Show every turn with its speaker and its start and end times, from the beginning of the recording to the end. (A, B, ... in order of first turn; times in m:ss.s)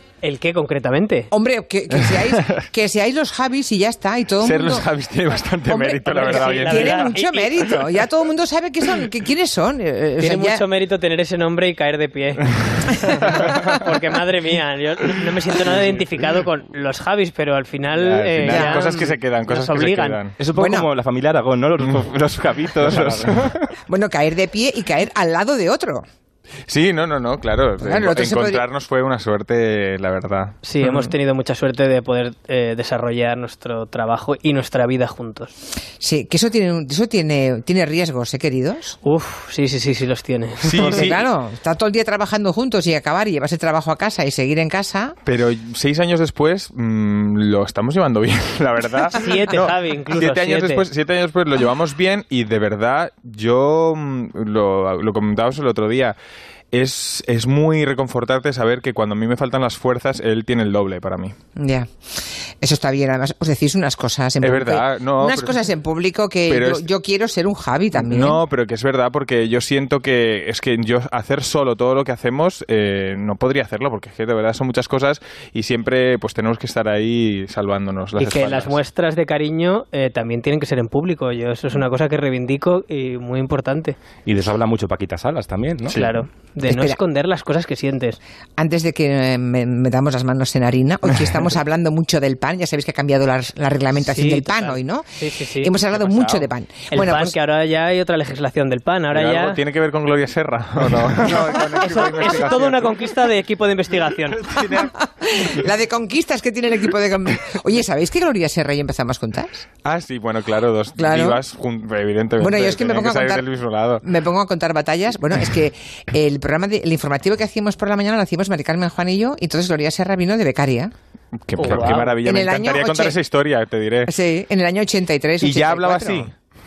0:00.2-0:01.3 A
0:01.3-0:04.9 B
0:02.1-0:02.6 C
0:04.4-0:07.1 C
0:05.7-0:10.6 B
0:06.1-0:07.7 A
0:10.2-0:20.2 A
0:13.2-0:13.5 C
0:15.6-0:16.0 C
0:17.9-0:20.4 C
0:18.5-0:18.8 B
0:20.4-0:23.6 D
0:20.6-0:20.9 B
0:21.8-0:23.5 C
0:23.9-0:26.1 B
0:26.7-0:30.6 C
0:27.8-0:28.7 B
0:30.6-0:35.5 A
0:36.0-0:39.0 B
0:39.0-0:41.1 A
0:40.6-0:41.2 C
0:40.7-0:45.2 B
0:45.2-0:56.2 C
0:49.2-0:50.9 A
0:56.7-1:01.3 C
1:01.6-1:08.4 B
1:04.4-1:05.6 C
1:06.5-1:06.9 C
1:07.9-1:18.8 C
1:18.2-1:24.0 A
1:24.3-1:26.0 D
1:25.9-1:28.2 A
1:26.6-1:27.0 B
1:28.6-1:35.1 B
1:34.0-1:35.7 A
1:35.6-1:37.4 B
1:36.0-1:36.4 C
1:36.9-1:39.6 A
1:39.1-1:43.0 C
1:41.8-1:44.4 A
1:44.3-1:45.6 C
1:44.8-1:49.6 B
1:49.8-1:54.0 C
1:51.0-1:51.4 B
1:52.4-1:53.4 B
1:54.0-2:00.9 B
2:01.4-2:04.1 C
2:01.6-2:02.1 A
2:01.6-2:03.2 B
2:04.1-2:06.3 B
2:05.4-2:06.3 C